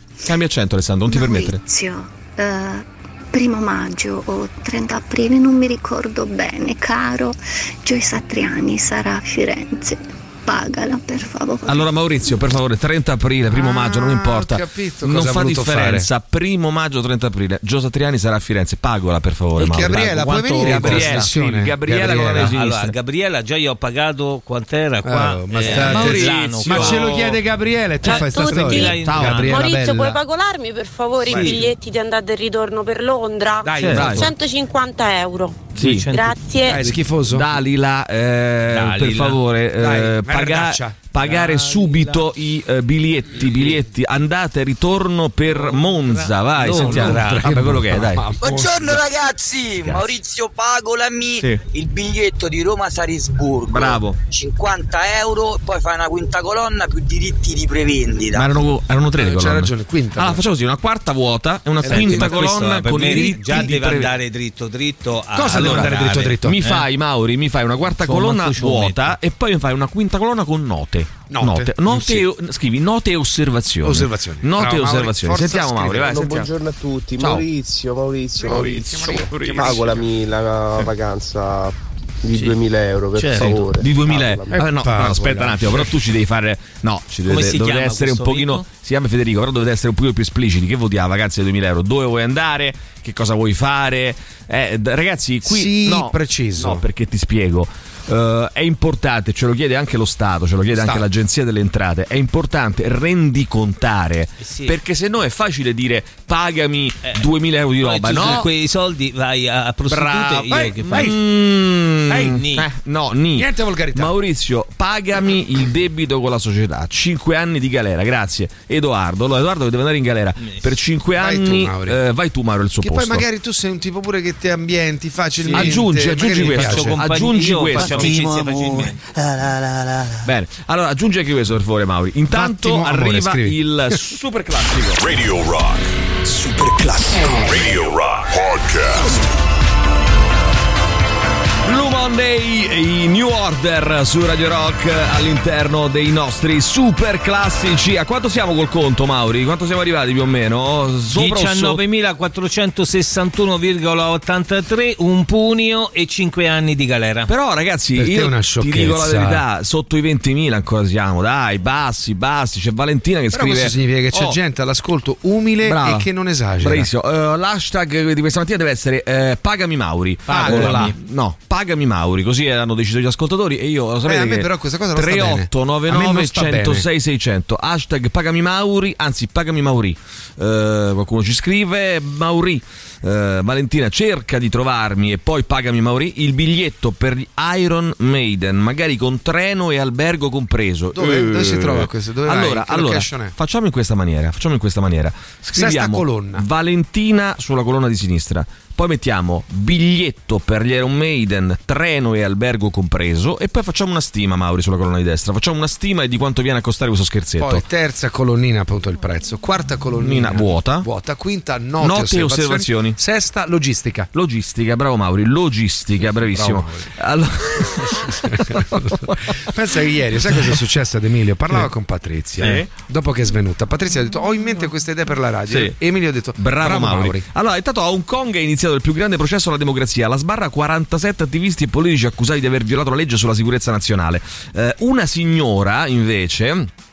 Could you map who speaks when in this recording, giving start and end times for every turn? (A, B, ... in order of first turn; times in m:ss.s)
0:00.2-0:01.6 A
0:01.1-0:11.9 B
0:11.6-0:20.0 A
0:13.5-0:16.1 C
0:19.6-0:21.3 D
0:19.6-0:22.5 C
0:20.6-0:22.9 A
0:22.3-0:27.3 D
0:25.0-0:30.2 C
0:25.6-0:27.4 A
0:28.0-0:29.6 D
0:28.0-0:36.9 E
0:29.1-0:29.4 A
0:31.3-0:31.7 D
0:31.3-0:31.6 C
0:33.6-0:34.3 C
0:33.8-0:34.1 D
0:33.8-0:34.3 A
0:35.7-0:36.4 D
0:35.8-0:36.1 A
0:36.7-0:37.5 C
0:37.2-0:48.2 A
0:38.7-0:39.4 D
0:39.8-0:41.0 C
0:41.2-0:42.2 D
0:45.5-0:47.4 D
0:46.8-0:49.0 C
0:48.4-0:58.5 F
0:53.7-0:54.2 A
0:58.3-1:04.2 A
0:59.2-1:00.4 C
1:01.8-1:03.7 C
1:01.8-1:06.8 D
1:05.3-1:06.6 C
1:05.5-1:16.5 A
1:08.0-1:09.2 D
1:11.3-1:12.2 C
1:13.8-1:16.3 C
1:16.3-1:21.3 G
1:17.2-1:17.5 A
1:18.4-1:19.9 C
1:18.6-1:20.0 A
1:22.3-1:24.4 G
1:23.2-1:23.7 D
1:23.4-1:48.5 A
1:24.5-1:25.9 C
1:27.3-1:28.6 D
1:35.4-1:36.8 C
1:40.7-1:41.1 C
1:44.4-1:44.7 D
1:47.8-1:51.1 D
1:49.9-2:03.2 A
1:50.5-1:51.2 C
1:52.1-1:52.4 C
1:52.3-1:52.7 D
1:53.4-1:54.1 C
2:00.4-2:00.6 D
2:01.2-2:02.0 C
2:02.8-2:07.0 C
2:05.4-2:05.8 D
2:05.5-2:08.2 A
2:06.3-2:09.0 D
2:10.2-2:15.0 A
2:12.3-2:14.0 C
2:15.0-2:15.9 H
2:17.4-2:19.2 H
2:21.6-2:31.8 A
2:31.1-2:37.3 D
2:37.3-2:44.4 A
2:38.0-2:39.4 C
2:43.3-2:46.9 C
2:45.6-2:46.1 A
2:46.6-3:27.6 A
2:50.3-2:50.9 C
2:50.3-2:50.9 D
2:54.0-2:56.8 C
3:10.9-3:13.3 C
3:15.5-3:16.4 C
3:27.4-3:34.1 C
3:30.0-3:30.9 A
3:31.8-3:33.0 A
3:34.1-3:39.4 A
3:36.1-3:36.9 C
3:37.9-3:47.2 C
3:42.4-3:42.7 A
3:45.5-3:45.7 A
3:46.4-3:56.7 A